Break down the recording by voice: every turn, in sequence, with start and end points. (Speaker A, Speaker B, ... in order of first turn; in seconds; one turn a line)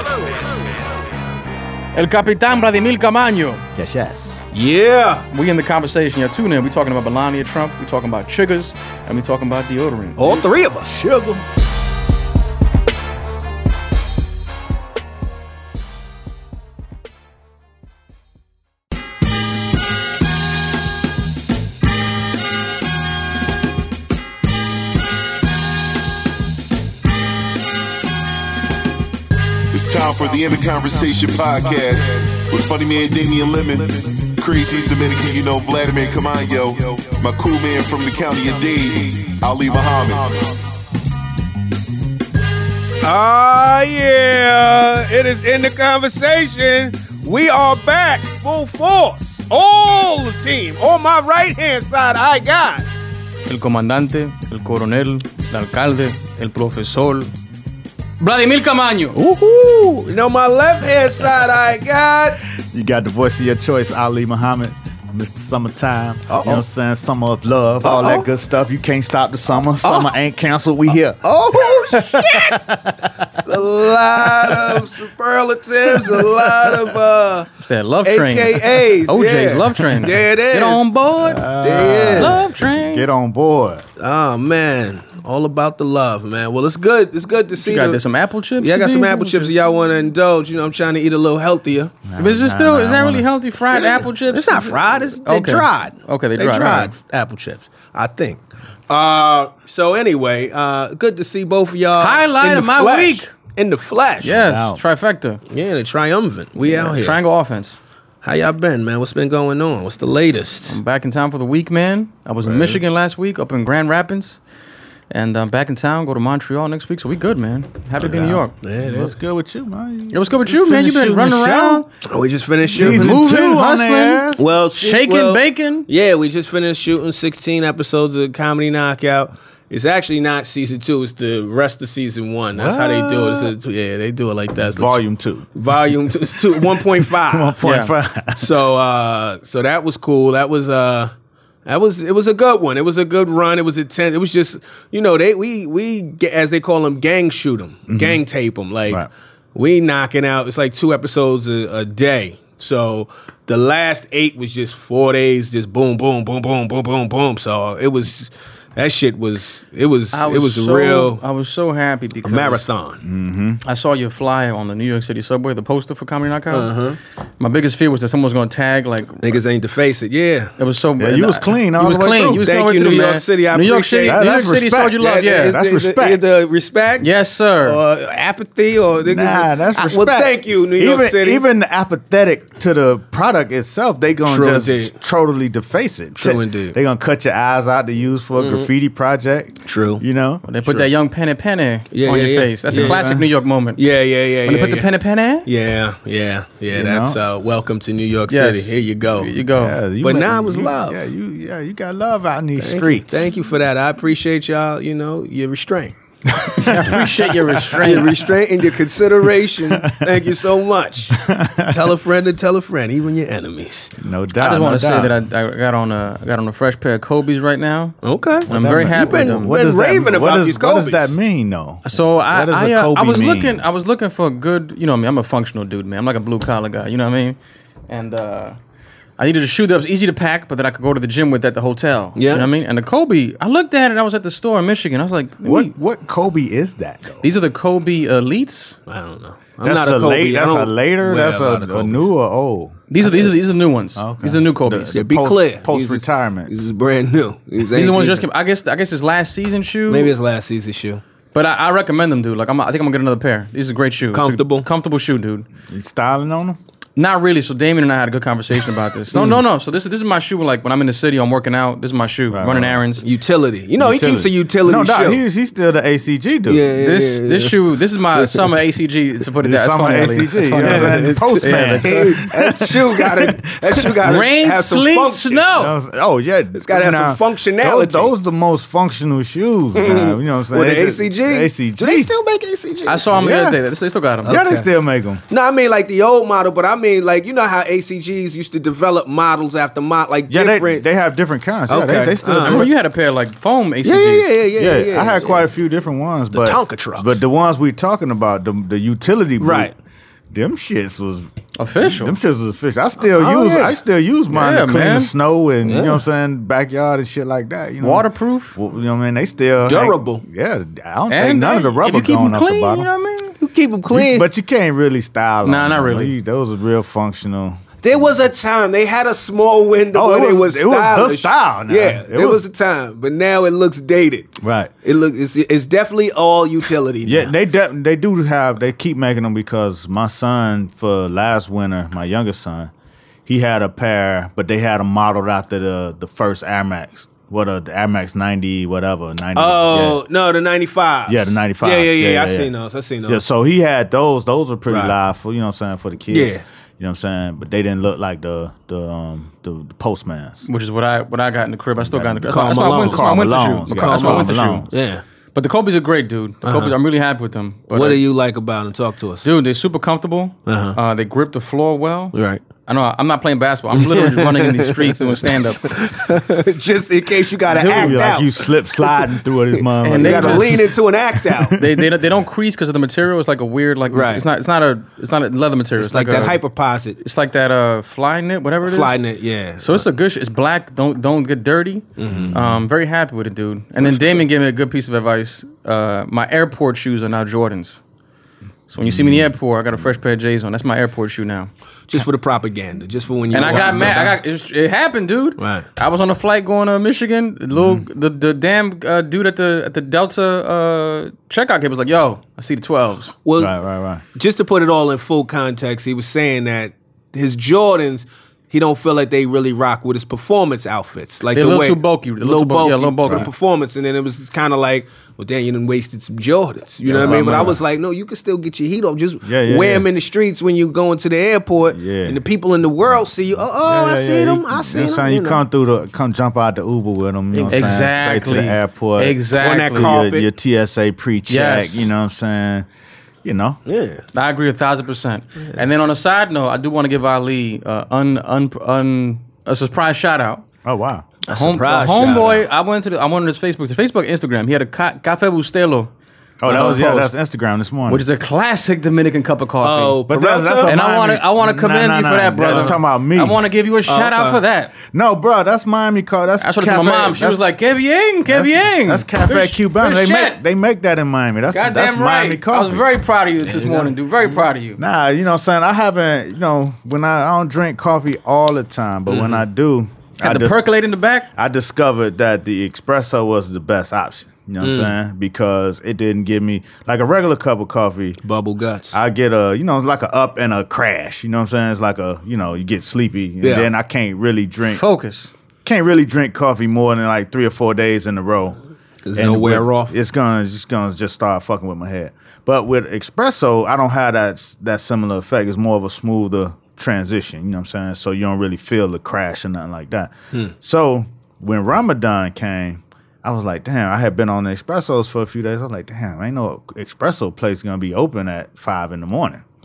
Speaker A: 1.9-3.6
Speaker B: 3.8-4.4
Speaker C: 4.5-5.3
Speaker A: 5.3-10.4
Speaker C: 10.2-10.9
Speaker B: 10.8-11.4
Speaker D: 29.7-40.5
Speaker C: 43.0-52.9
Speaker A: 53.5-57.3
Speaker A: 58.2-59.2
Speaker B: 59.2-59.7
Speaker C: 59.3-62.4
Speaker B: 62.7-75.0
Speaker C: 66.3-66.6
Speaker C: 67.8-68.3
Speaker C: 69.8-70.1
Speaker C: 71.2-72.6
Speaker C: 73.4-77.5
Speaker B: 75.8-77.0
Speaker A: 77.6-81.5
Speaker C: 78.0-80.9
Speaker B: 81.2-83.9
Speaker C: 81.6-82.4
Speaker A: 82.1-83.1
Speaker C: 84.0-88.0
Speaker A: 87.6-89.5
Speaker C: 88.6-92.0
Speaker B: 92.1-93.3
Speaker A: 92.2-96.9
Speaker C: 93.7-104.4
Speaker A: 102.0-103.3
Speaker B: 104.2-104.8
Speaker A: 104.2-105.4
Speaker C: 105.5-107.2
Speaker A: 106.6-107.8
Speaker C: 108.2-110.8
Speaker A: 110.7-114.4
Speaker B: 112.5-112.8
Speaker A: 115.1-118.5
Speaker B: 118.0-121.8
Speaker C: 118.6-119.2
Speaker A: 120.1-121.9
Speaker C: 122.0-123.2
Speaker B: 122.7-124.5
Speaker A: 122.8-125.9
Speaker C: 124.4-135.0
Speaker B: 132.5-133.5
Speaker B: 134.6-135.5
Speaker C: 135.6-137.6
Speaker B: 136.4-138.5
Speaker A: 137.6-137.9
Speaker C: 138.4-141.1
Speaker C: 141.7-161.2
Speaker B: 147.9-148.2
Speaker A: 160.1-162.7
Speaker C: 162.2-163.0
Speaker B: 163.0-163.6
Speaker A: 163.7-166.7
Speaker C: 166.5-167.0
Speaker A: 167.4-169.4
Speaker C: 169.2-170.5
Speaker A: 170.6-175.6
Speaker B: 171.0-172.5
Speaker C: 172.4-174.2
Speaker B: 174.1-176.2
Speaker C: 175.0-177.1
Speaker A: 177.0-177.8
Speaker C: 177.6-181.4
Speaker B: 179.0-190.9
Speaker C: 184.3-184.9
Speaker C: 186.2-186.8
Speaker C: 188.3-188.7
Speaker C: 189.7-190.0
Speaker A: 190.4-193.8
Speaker C: 191.9-193.0
Speaker B: 192.7-193.3
Speaker C: 193.8-194.9
Speaker A: 194.4-195.5
Speaker C: 195.4-199.3
Speaker B: 196.7-197.2
Speaker A: 198.3-199.8
Speaker B: 199.6-203.3
Speaker C: 200.0-201.0
Speaker C: 202.6-206.0
Speaker B: 206.3-208.1
Speaker A: 206.6-208.1
Speaker C: 207.8-213.9
Speaker B: 209.7-210.2
Speaker B: 211.1-211.9
Speaker B: 214.0-215.2
Speaker A: 214.4-219.5
Speaker C: 218.0-221.1
Speaker B: 218.5-223.6
Speaker A: 221.9-227.4
Speaker A: 227.9-228.6
Speaker A: 229.2-235.7
Speaker C: 232.2-232.5
Speaker B: 235.4-237.3
Speaker A: 237.2-238.8
Speaker C: 238.9-242.1
Speaker B: 239.6-242.8
Speaker A: 242.9-245.0
Speaker B: 244.0-246.6
Speaker C: 244.9-248.2
Speaker A: 247.7-250.1
Speaker C: 249.9-251.0
Speaker A: 251.3-255.5
Speaker C: 254.1-254.7
Speaker B: 255.7-256.6
Speaker A: 257.0-263.0
Speaker C: 259.1-259.4
Speaker B: 262.3-262.8
Speaker C: 263.0-265.2
Speaker B: 263.8-266.7
Speaker C: 266.5-267.6
Speaker A: 266.8-272.0
Speaker C: 268.1-268.5
Speaker B: 269.4-274.2
Speaker C: 270.6-275.4
Speaker A: 274.1-275.7
Speaker B: 275.5-282.1
Speaker C: 276.5-278.1
Speaker C: 279.7-283.2
Speaker A: 282.9-284.4
Speaker B: 283.1-283.6
Speaker B: 284.2-285.2
Speaker C: 284.3-284.7
Speaker C: 285.3-290.9
Speaker B: 290.3-292.7
Speaker C: 291.7-292.7
Speaker A: 292.4-294.3
Speaker C: 293.8-295.4
Speaker B: 294.6-299.7
Speaker C: 296.3-297.2
Speaker C: 299.4-299.8
Speaker B: 300.3-312.9
Speaker A: 301.6-302.2
Speaker C: 303.1-303.8
Speaker A: 304.3-305.1
Speaker C: 305.6-306.0
Speaker A: 307.8-308.6
Speaker C: 309.6-310.2
Speaker A: 311.1-313.4
Speaker C: 313.4-314.3
Speaker B: 313.9-317.6
Speaker A: 315.4-316.1
Speaker C: 317.8-327.3
Speaker B: 319.9-322.4
Speaker B: 324.4-324.7
Speaker B: 327.0-332.7
Speaker B: 333.3-340.0
Speaker C: 339.4-343.2
Speaker B: 341.1-342.5
Speaker B: 343.1-350.5
Speaker C: 344.7-345.0
Speaker C: 346.1-346.4
Speaker A: 350.5-354.7
Speaker B: 351.8-354.7
Speaker C: 352.3-355.0
Speaker A: 355.3-358.0
Speaker C: 356.4-356.7
Speaker C: 357.7-359.3
Speaker A: 359.2-365.9
Speaker C: 360.5-360.8
Speaker C: 362.1-362.4
Speaker C: 363.7-371.6
Speaker A: 367.5-368.0
Speaker B: 367.7-371.9
Speaker A: 369.8-370.6
Speaker A: 371.6-376.4
Speaker C: 373.9-374.2
Speaker C: 375.8-377.0
Speaker A: 377.0-379.0
Speaker C: 378.6-379.9
Speaker A: 379.6-387.8
Speaker C: 382.0-382.4
Speaker B: 382.1-382.6
Speaker C: 383.8-384.3
Speaker A: 388.7-392.1
Speaker B: 388.8-389.3
Speaker C: 391.9-394.1
Speaker A: 393.3-403.1
Speaker B: 393.5-394.1
Speaker C: 395.4-395.7
Speaker B: 397.5-397.9
Speaker C: 403.2-403.6
Speaker B: 403.4-404.0
Speaker C: 404.1-425.4
Speaker A: 411.3-413.3
Speaker B: 413.1-413.3
Speaker B: 416.8-417.6
Speaker B: 419.2-419.9
Speaker B: 421.7-422.2
Speaker B: 423.6-432.7
Speaker C: 427.3-427.9
Speaker A: 427.5-429.9
Speaker C: 429.4-430.3
Speaker A: 431.3-431.9
Speaker B: 433.2-433.6
Speaker C: 433.7-434.1
Speaker A: 434.1-440.4
Speaker B: 440.6-441.1
Speaker A: 441.3-445.9
Speaker C: 441.3-442.4
Speaker B: 446.4-448.0
Speaker A: 446.4-447.1
Speaker A: 447.9-450.0
Speaker C: 449.6-450.8
Speaker B: 450.1-453.4
Speaker A: 450.7-454.8
Speaker C: 452.5-452.8
Speaker C: 453.9-454.4
Speaker B: 454.9-457.4
Speaker A: 456.4-460.4
Speaker B: 458.3-462.9
Speaker A: 461.5-464.8
Speaker C: 463.4-464.4
Speaker B: 464.8-470.7
Speaker C: 469.1-469.4
Speaker A: 470.2-471.3
Speaker B: 471.4-478.2
Speaker C: 474.6-474.9
Speaker C: 478.2-479.0
Speaker B: 478.9-484.8
Speaker C: 483.4-483.7
Speaker A: 484.6-485.3
Speaker B: 485.6-488.6
Speaker C: 489.1-489.9
Speaker B: 489.1-509.4